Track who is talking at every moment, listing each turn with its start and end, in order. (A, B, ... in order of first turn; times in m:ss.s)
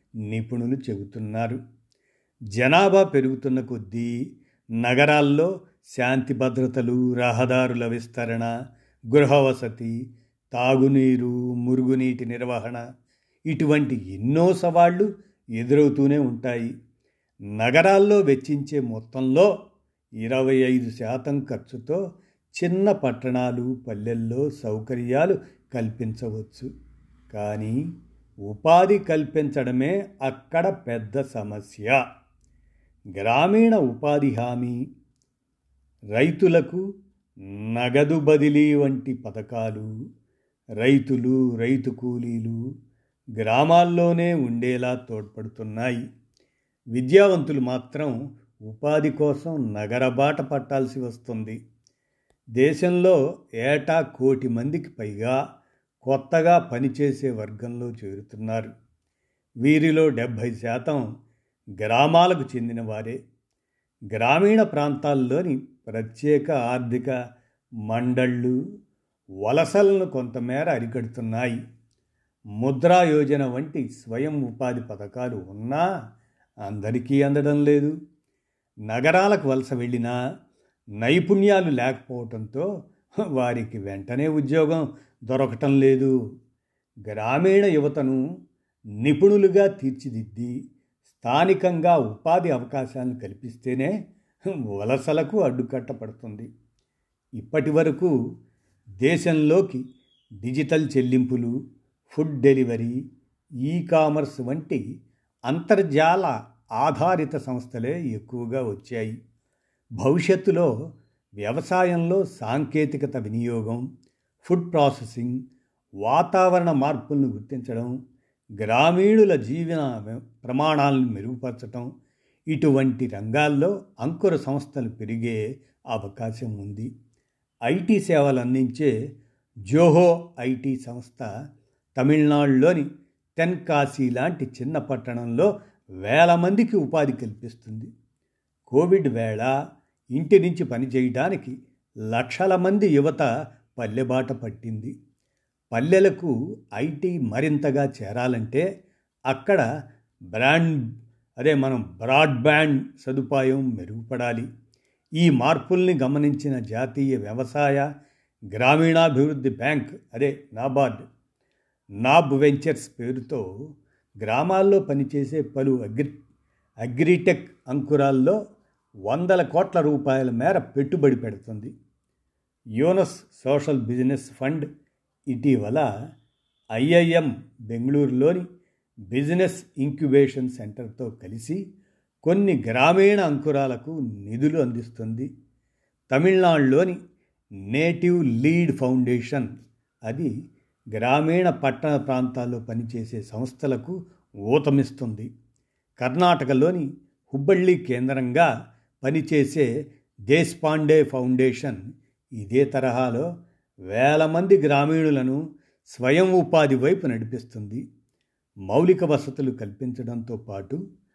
0:00.3-0:01.6 A
0:02.5-0:04.1 A
0:04.8-0:08.5 A
0:09.1-0:09.9 A
0:10.5-0:12.8 A
0:13.5-0:15.1 A
0:15.6-0:16.7 A
0:17.6-0:19.5 A
0:20.2-0:22.0 A
0:22.6-0:26.7 A
0:27.3-0:27.8 A
0:28.5-0:32.0 A
0:33.2-0:34.8 A
0:36.1-0:36.8 A
0:37.6-0:39.9 A
0:40.8-0:42.6 A
0:43.4-0:46.0 A
0:46.9-0:48.2 A
0:48.7-0:51.6 A
0:52.6-0:55.4 A
0:56.0-0:58.7 A
0:59.6-1:01.0 A
1:01.8-1:03.2 A
1:04.1-1:07.1 A
1:07.9-1:08.6 A
1:09.4-1:11.6 A
1:12.6-1:15.8 A
1:16.7-1:17.9 A
1:18.9-1:20.2 A
1:21.0-1:22.7 A
1:23.2-1:26.1 A
1:27.1-1:28.2 A
1:29.0-1:30.5 A
1:31.1-1:33.9 A
1:34.7-1:36.5 A
1:37.4-1:38.1 A
1:39.0-1:39.8 A
1:40.4-1:41.5 A
1:42.1-1:43.0 A
1:43.6-1:44.8 A
1:45.5-1:49.2 A
1:50.0-1:50.7 A
1:51.4-1:53.8 A
1:54.4-1:55.4 A
1:56.0-1:57.9 A
1:58.6-2:01.9 A
2:02.5-2:06.9 A
2:07.7-2:08.9 A
2:09.7-2:11.3 A
2:12.0-2:15.5 A
2:16.0-2:17.9 A
2:18.7-2:19.5 A
2:20.1-2:21.5 A
2:22.1-2:24.9 A
2:25.7-2:28.6 A
2:29.3-2:29.6 A
2:30.3-2:30.8 A
2:31.4-2:34.5 A
2:35.2-2:37.8 A
2:38.5-2:41.0 A
2:42.0-2:43.4 A
2:44.2-2:46.2 A
2:46.8-2:48.4 A
2:49.1-2:51.7 A
2:52.8-2:54.7 A
2:55.3-2:55.8 A
2:56.7-2:58.4 A
2:59.1-3:01.6 A
3:02.2-3:05.3 A
3:06.1-3:07.0 A
3:07.7-3:09.5 A
3:10.9-3:13.9 A
3:14.5-3:15.3 A
3:16.0-3:18.5 A
3:19.0-3:19.7 A
3:20.3-3:21.8 A
3:22.4-3:23.3 A
3:23.9-3:27.8 A
3:28.7-3:30.8 A